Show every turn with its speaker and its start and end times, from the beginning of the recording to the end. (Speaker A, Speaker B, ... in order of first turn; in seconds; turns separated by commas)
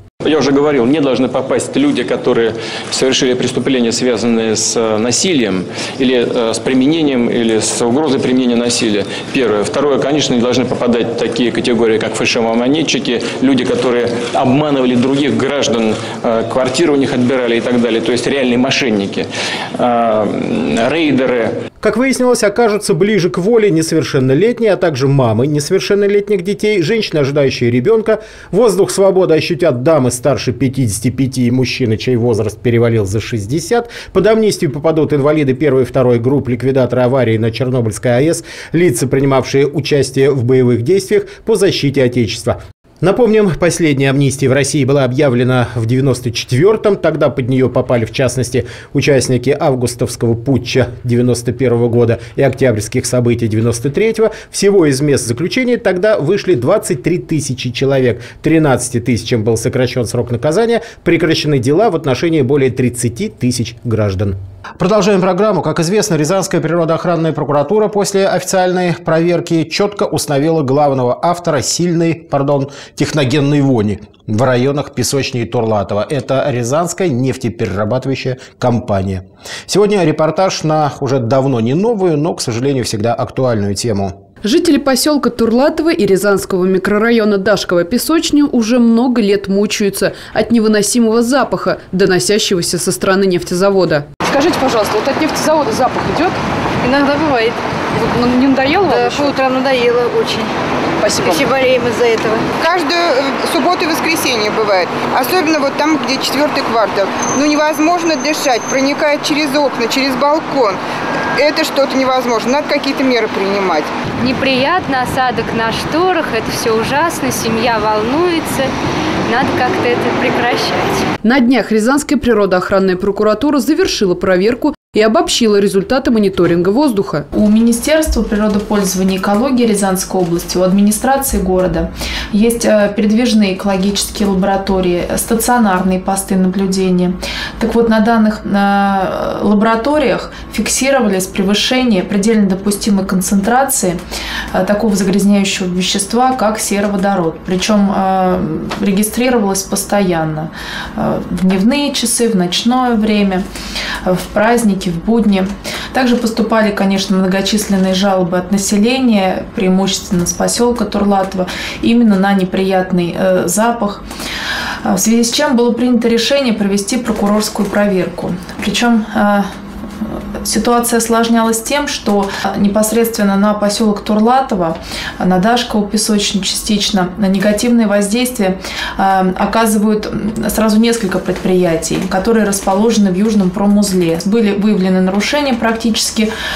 Speaker A: 0.2-21.5, Speaker B: 21.8-84.2, Speaker C: 84.4-96.4, Speaker D: 96.8-97.6, Speaker D: 98.1-100.5, Speaker C: 98.1-99.4, Speaker C: 101.0-101.4, Speaker D: 101.0-102.5, Speaker E: 102.5-110.8, Speaker E: 111.3-113.9, Speaker F: 114.2-118.7, Speaker F: 119.3-121.0, Speaker C: 121.2-127.2, Speaker G: 127.3-144.0, Speaker G: 144.5-153.5, Speaker G: 154.0-164.0, Speaker G: 164.8-169.5, Speaker G: 170.4-186.3